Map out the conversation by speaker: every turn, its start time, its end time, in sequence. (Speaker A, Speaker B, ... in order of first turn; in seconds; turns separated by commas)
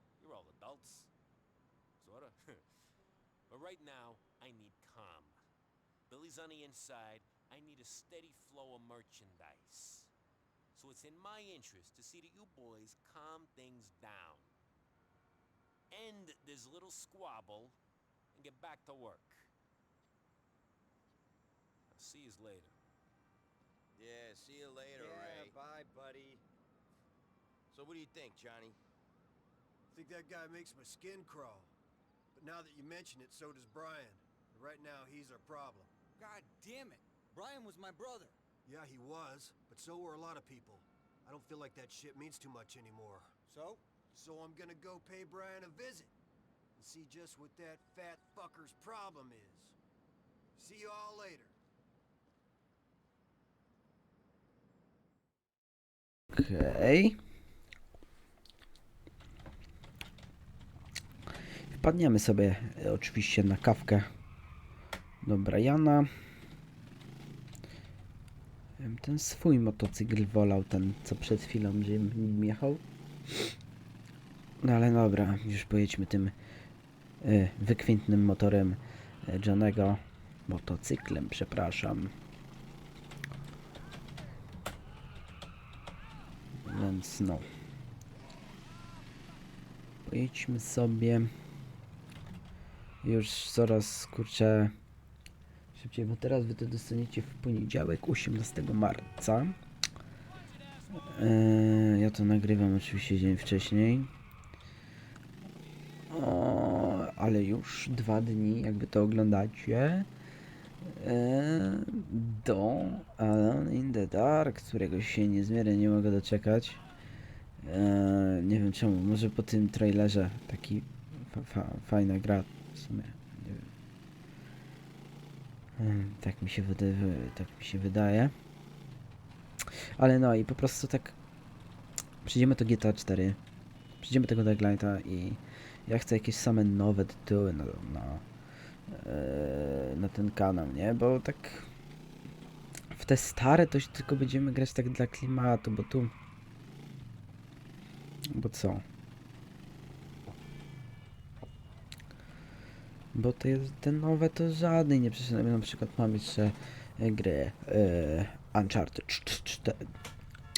Speaker A: 0.2-1.1, Speaker A: 2.0-2.7, Speaker A: 3.5-5.4, Speaker A: 6.1-10.1, Speaker A: 10.7-14.5, Speaker A: 15.9-17.8, Speaker A: 18.3-19.5, Speaker A: 21.9-22.8, Speaker B: 23.9-25.6, Speaker C: 25.0-25.5, Speaker D: 25.0-26.4, Speaker B: 27.7-28.8, Speaker D: 29.9-31.7, Speaker D: 32.4-35.9, Speaker C: 36.2-38.4, Speaker D: 38.6-43.3, Speaker C: 43.5-43.8, Speaker D: 44.1-46.1, Speaker D: 46.8-49.8, Speaker D: 50.6-51.5, Speaker E: 56.3-57.2, Speaker E: 61.7-64.1, Speaker E: 65.2-66.1, Speaker E: 68.8-73.5, Speaker E: 74.6-76.3, Speaker E: 77.2-82.1, Speaker E: 86.6-87.5, Speaker E: 90.1-91.3, Speaker E: 93.0-94.7, Speaker E: 95.8-99.6, Speaker E: 101.0-104.1, Speaker E: 106.1-110.1, Speaker E: 110.8-116.8, Speaker E: 117.6-123.7, Speaker E: 125.8-128.3, Speaker E: 130.0-131.2, Speaker E: 132.2-133.4, Speaker E: 134.0-138.2, Speaker E: 138.9-141.7, Speaker E: 142.9-146.1, Speaker E: 148.3-148.8, Speaker E: 153.1-159.9